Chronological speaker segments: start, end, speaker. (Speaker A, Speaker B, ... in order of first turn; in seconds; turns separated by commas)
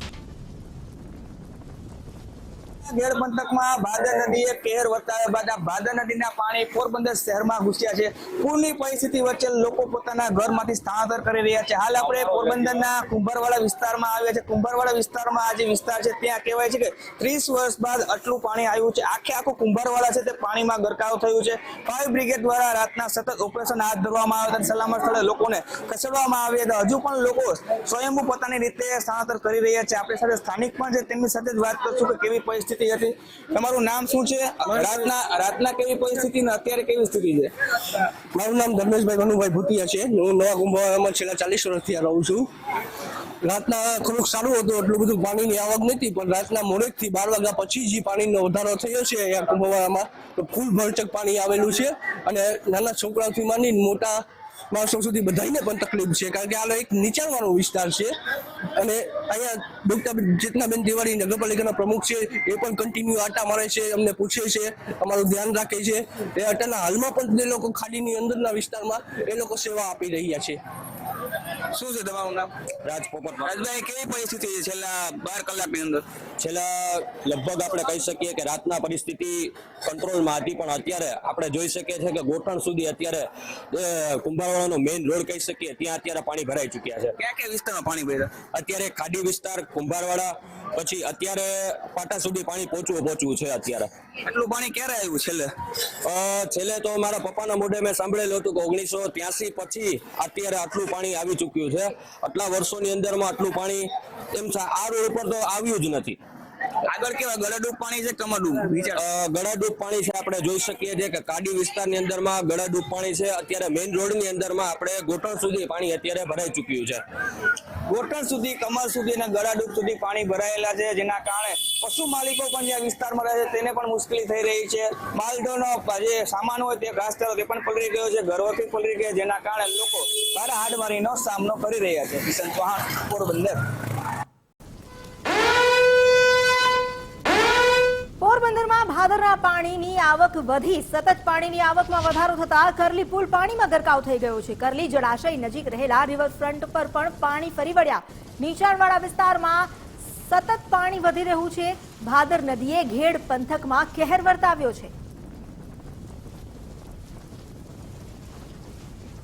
Speaker A: 2.8-37.9, Speaker B: 38.4-42.5, Speaker B: 43.4-54.2, Speaker B: 54.7-58.1, Speaker B: 58.8-70.6, Speaker A: 71.7-72.5, Speaker C: 72.8-73.6, Speaker A: 73.4-76.0, Speaker C: 76.4-87.2, Speaker A: 87.2-88.4, Speaker C: 88.5-93.9, Speaker A: 94.2-95.5, Speaker C: 96.0-106.2, Speaker A: 106.9-109.0, Speaker C: 109.0-117.0, Speaker A: 117.9-133.6, Speaker D: 138.2-149.7, Speaker D: 150.2-154.9